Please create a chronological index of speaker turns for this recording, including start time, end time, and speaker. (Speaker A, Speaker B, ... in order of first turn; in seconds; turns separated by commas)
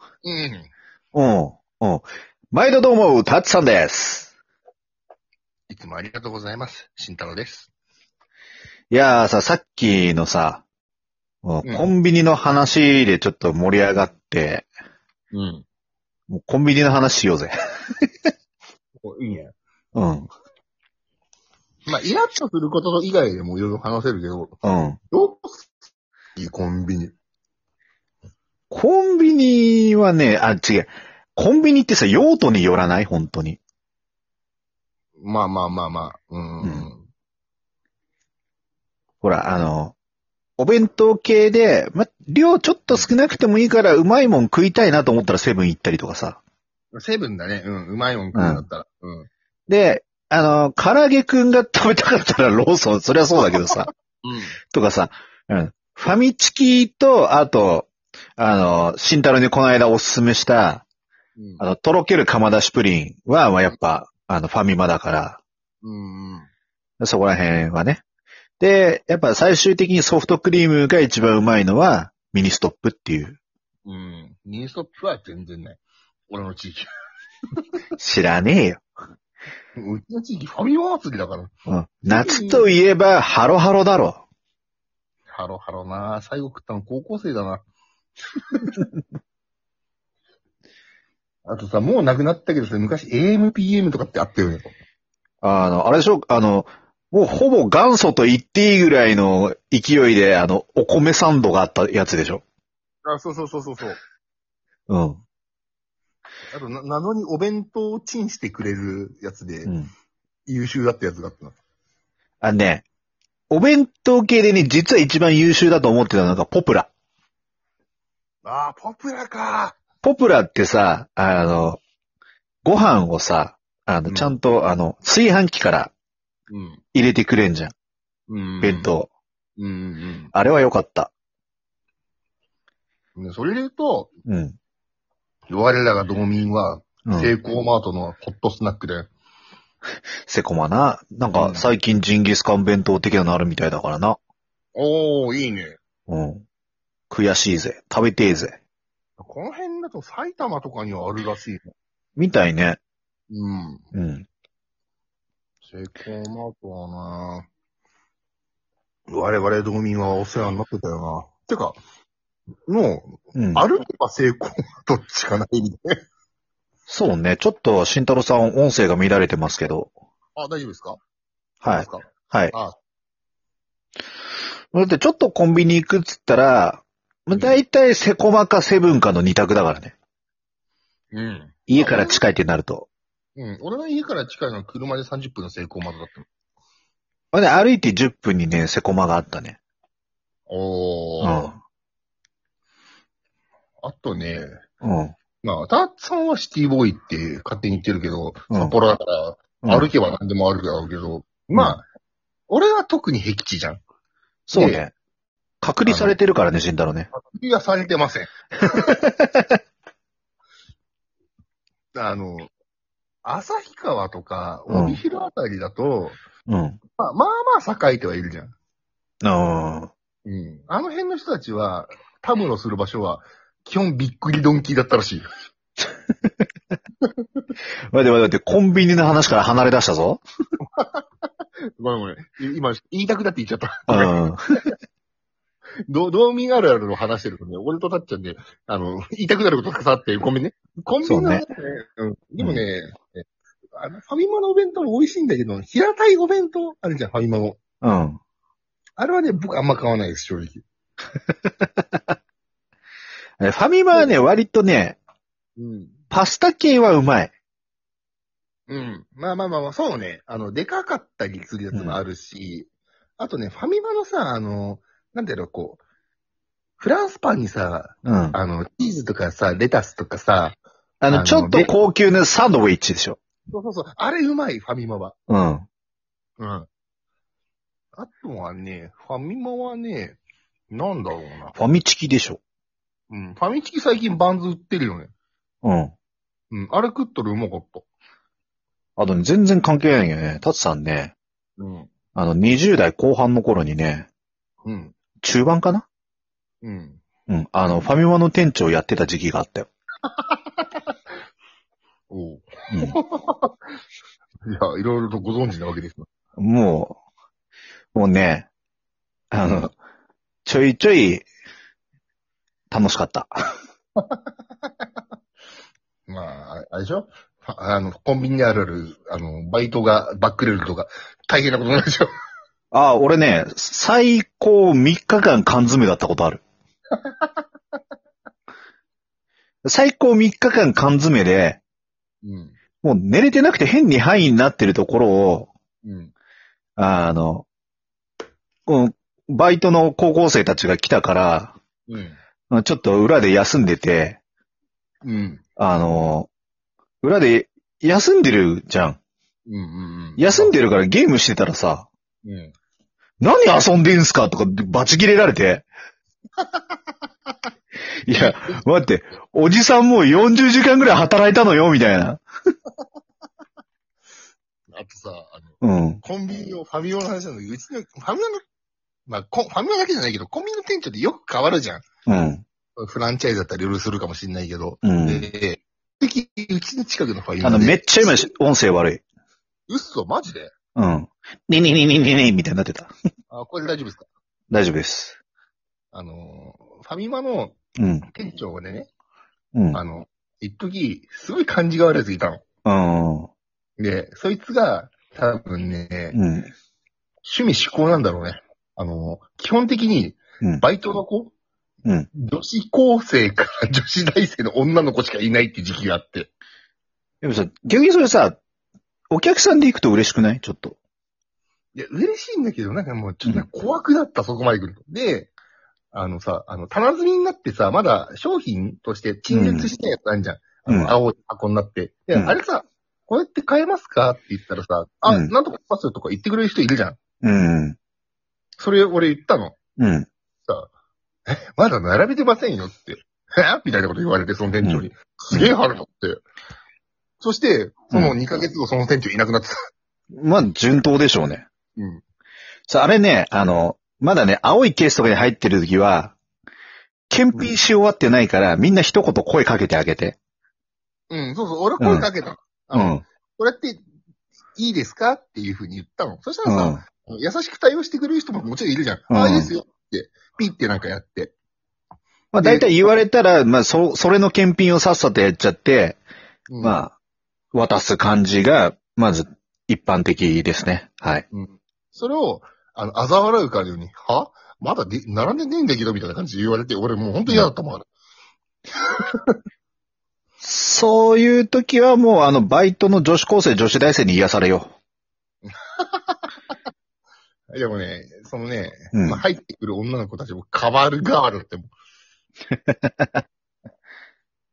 Speaker A: 0.2-0.7, Speaker B: 1.1-4.3, Speaker A: 5.7-7.7, Speaker B: 8.9-10.6, Speaker B: 11.4-14.7, Speaker A: 11.6-11.9, Speaker A: 15.3-15.6, Speaker B: 16.3-18.1, Speaker A: 19.0-19.5, Speaker B: 19.9-20.3, Speaker A: 21.9-24.6, Speaker B: 24.6-25.0, Speaker A: 25.1-25.7, Speaker A: 26.4-27.1, Speaker B: 28.7-33.6, Speaker A: 35.2-37.1, Speaker B: 39.2-39.9, Speaker B: 40.6-46.4, Speaker A: 46.9-49.3, Speaker B: 48.3-48.6, Speaker B: 49.7-53.9, Speaker A: 54.2-54.5, Speaker B: 54.7-60.8, Speaker B: 61.6-65.4, Speaker A: 65.8-66.5, Speaker B: 67.0-68.0, Speaker B: 68.6-73.4, Speaker A: 73.8-76.9, Speaker B: 78.0-78.8, Speaker A: 79.7-81.5, Speaker B: 81.7-84.2, Speaker A: 82.0-82.7, Speaker A: 85.3-87.6, Speaker A: 91.5-94.7, Speaker B: 95.4-102.4, Speaker A: 103.0-104.0, Speaker B: 104.9-105.2, Speaker A: 106.5-109.7, Speaker B: 109.6-109.9, Speaker A: 110.5-111.5, Speaker B: 112.4-112.8, Speaker B: 113.5-116.9, Speaker A: 118.4-119.8, Speaker B: 120.0-121.8, Speaker B: 122.6-125.9, Speaker A: 124.1-124.4, Speaker A: 126.5-126.8, Speaker B: 126.9-127.7, Speaker A: 128.3-128.9, Speaker B: 128.6-129.1, Speaker A: 129.6-130.3, Speaker B: 130.3-131.1, Speaker A: 133.2-134.1, Speaker B: 134.3-134.6, Speaker A: 135.5-139.1, Speaker B: 137.1-137.3, Speaker B: 140.3-144.2, Speaker A: 141.3-141.7, Speaker A: 144.7-145.8, Speaker B: 146.1-146.4, Speaker B: 147.1-148.6, Speaker A: 149.2-151.7, Speaker B: 152.2-152.8, Speaker A: 153.3-153.9, Speaker B: 153.9-154.2, Speaker A: 155.6-157.5, Speaker A: 159.1-161.8, Speaker A: 162.7-166.0, Speaker B: 163.3-163.6, Speaker B: 166.9-169.9, Speaker A: 170.3-171.0, Speaker B: 171.6-172.5, Speaker A: 171.6-172.8, Speaker B: 174.7-179.9, Speaker A: 177.3-177.6, Speaker A: 181.1-182.2, Speaker B: 181.7-182.9, Speaker A: 183.3-186.2, Speaker B: 187.3-189.6, Speaker A: 190.5-191.5, Speaker B: 191.2-191.6, Speaker A: 193.8-194.6, Speaker B: 194.8-195.1, Speaker A: 195.4-201.8, Speaker B: 199.6-199.9, Speaker A: 202.5-203.8, Speaker B: 204.5-204.9, Speaker A: 204.5-204.8, Speaker B: 205.6-207.1, Speaker A: 205.8-206.2, Speaker A: 207.1-208.9, Speaker B: 208.8-209.5, Speaker A: 211.9-212.5, Speaker A: 213.2-216.2, Speaker B: 214.7-215.0, Speaker B: 216.5-216.8, Speaker A: 216.9-218.5, Speaker B: 219.2-219.9, Speaker A: 220.2-225.3, Speaker B: 227.9-230.2, Speaker A: 230.7-231.0, Speaker A: 231.8-234.2, Speaker B: 233.9-234.4, Speaker A: 235.8-243.2, Speaker B: 241.0-241.4, Speaker A: 243.7-247.6, Speaker B: 247.8-248.2, Speaker A: 249.0-250.6, Speaker B: 251.6-252.1, Speaker B: 253.4-255.0, Speaker A: 255.6-255.9, Speaker B: 256.1-257.3, Speaker A: 258.7-265.8, Speaker B: 261.7-262.0, Speaker A: 266.8-271.7, Speaker B: 268.0-268.4, Speaker B: 271.0-273.2, Speaker A: 273.5-275.1, Speaker B: 275.3-275.6, Speaker A: 276.4-276.6, Speaker A: 277.9-280.2, Speaker A: 280.7-281.6, Speaker B: 281.5-282.4, Speaker A: 283.1-285.1, Speaker B: 285.6-285.9, Speaker A: 286.5-287.9, Speaker B: 289.0-291.1, Speaker A: 291.6-291.9, Speaker B: 292.1-294.1, Speaker A: 294.6-294.9, Speaker B: 295.2-295.9, Speaker A: 296.6-297.0, Speaker B: 297.3-299.7, Speaker A: 300.1-300.7, Speaker A: 302.1-303.6, Speaker A: 304.4-306.1, Speaker B: 306.4-306.9, Speaker B: 307.9-308.5, Speaker B: 309.3-309.7, Speaker A: 309.4-309.7, Speaker B: 310.4-311.2, Speaker B: 312.7-313.3, Speaker A: 313.9-314.9, Speaker A: 316.1-322.1, Speaker B: 322.7-326.4, Speaker A: 326.9-327.3, Speaker B: 329.6-331.6, Speaker A: 332.2-332.6, Speaker B: 332.8-335.5, Speaker A: 335.8-336.1, Speaker B: 336.8-337.4, Speaker B: 338.7-341.6, Speaker A: 341.9-342.2, Speaker B: 342.5-344.2, Speaker A: 345.0-345.4, Speaker B: 345.6-346.3, Speaker B: 347.0-349.0, Speaker A: 349.4-350.5, Speaker B: 350.2-351.9, Speaker A: 352.2-352.5, Speaker B: 353.2-355.6, Speaker A: 356.4-356.6, Speaker B: 358.1-362.2, Speaker A: 358.1-358.6, Speaker A: 364.7-368.4, Speaker B: 365.6-366.0, Speaker A: 369.1-371.8, Speaker B: 372.1-372.4, Speaker A: 372.8-378.3, Speaker B: 374.8-375.3, Speaker B: 377.4-379.0, Speaker A: 379.7-380.5, Speaker B: 380.7-382.9, Speaker A: 383.3-384.0, Speaker B: 384.5-385.2, Speaker A: 385.9-387.6, Speaker B: 387.8-388.1, Speaker A: 388.1-388.9, Speaker A: 389.7-392.4, Speaker B: 392.6-393.3, Speaker A: 393.8-396.2, Speaker B: 396.1-396.5, Speaker A: 397.2-401.3, Speaker A: 402.1-406.3, Speaker B: 407.2-408.4, Speaker B: 409.1-410.8, Speaker A: 411.7-415.3, Speaker A: 415.9-427.0, Speaker B: 419.3-419.7, Speaker B: 420.7-420.9, Speaker B: 427.2-427.8, Speaker A: 428.6-429.6, Speaker B: 429.8-430.1, Speaker A: 431.3-436.2, Speaker A: 437.2-439.5, Speaker B: 440.1-441.4, Speaker A: 441.8-442.0, Speaker B: 442.7-446.1, Speaker B: 447.1-450.2, Speaker A: 451.1-453.8, Speaker B: 451.8-452.1, Speaker B: 452.7-453.0, Speaker A: 454.6-461.3, Speaker B: 456.4-456.8, Speaker B: 459.1-459.5, Speaker B: 462.3-466.0, Speaker A: 462.4-463.0, Speaker A: 466.5-466.8, Speaker B: 466.6-466.9, Speaker B: 467.5-471.2, Speaker A: 471.3-477.9, Speaker A: 478.8-479.4, Speaker B: 480.4-484.7, Speaker A: 485.4-486.2, Speaker A: 487.5-491.7, Speaker B: 488.9-489.2, Speaker B: 492.7-493.1